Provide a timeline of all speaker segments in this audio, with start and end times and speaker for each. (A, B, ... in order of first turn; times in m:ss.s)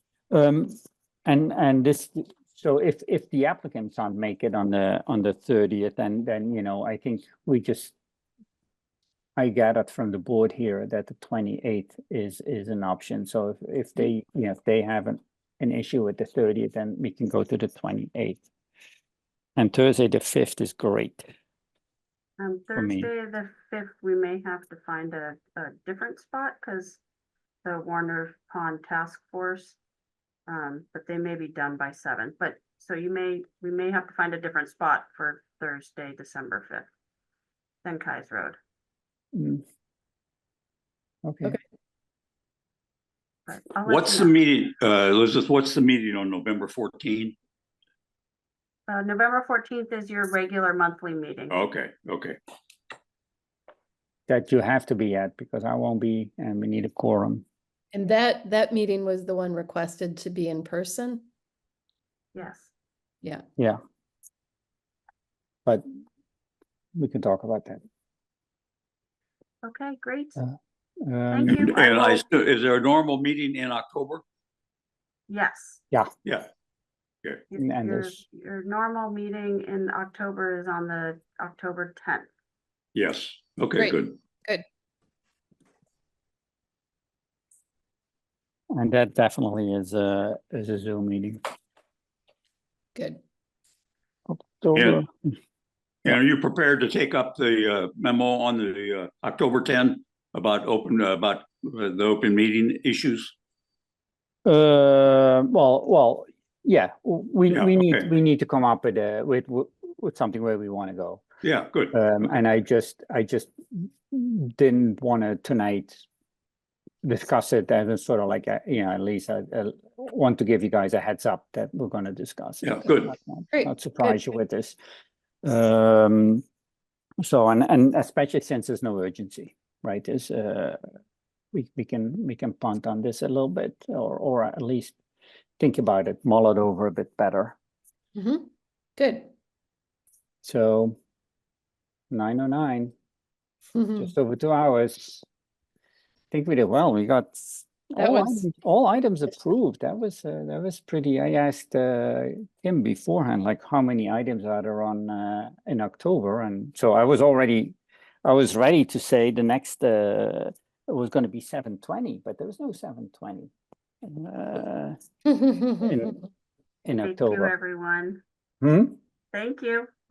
0:00.3-0:00.8 A
0:01.2-0:07.9 A
0:09.4-0:18.4 A
0:19.6-0:21.3 A
0:22.4-0:27.0 B
0:22.8-0:23.1 A
0:27.6-0:29.8 B
0:30.5-0:36.9 B
0:37.8-0:38.6 B
0:39.3-0:39.6 A
0:41.2-0:41.6 A
0:43.5-0:44.3 B
0:43.9-0:47.4 C
0:48.9-0:51.6 B
0:51.5-0:52.4 C
0:54.3-0:57.4 A
0:57.9-1:01.3 D
1:02.4-1:02.7 B
1:07.0-1:07.8 A
1:09.6-1:10.4 B
1:10.4-1:11.7 A
1:11.3-1:12.2 B
1:11.5-1:14.2 C
1:15.3-1:15.8 B
1:17.5-1:22.3 B
1:17.6-1:18.2 A
1:22.9-1:24.2 C
1:23.8-1:24.6 D
1:28.7-1:31.4 A
1:32.9-1:33.2 D
1:34.3-1:35.1 A
1:34.7-1:35.0 C
1:36.0-1:43.3 C
1:44.4-1:51.2 A
1:47.5-1:48.1 C
1:51.4-1:51.9 C
1:51.9-1:56.0 A
1:57.0-2:04.8 A
2:02.6-2:03.1 C
2:03.5-2:04.1 D
2:05.4-2:06.4 A
2:07.2-2:10.8 A
2:11.5-2:15.0 A
2:15.6-2:17.6 A
2:18.2-2:19.3 D
2:20.4-2:21.0 A
2:22.1-2:22.9 A
2:23.8-2:24.1 D
2:24.0-2:25.2 A
2:26.3-2:43.5 A
2:28.0-2:28.5 D
2:44.0-2:45.0 A
2:45.6-2:46.2 A
2:46.8-2:47.5 A
2:47.0-2:48.2 B
2:48.6-2:49.0 A
2:49.3-2:49.9 B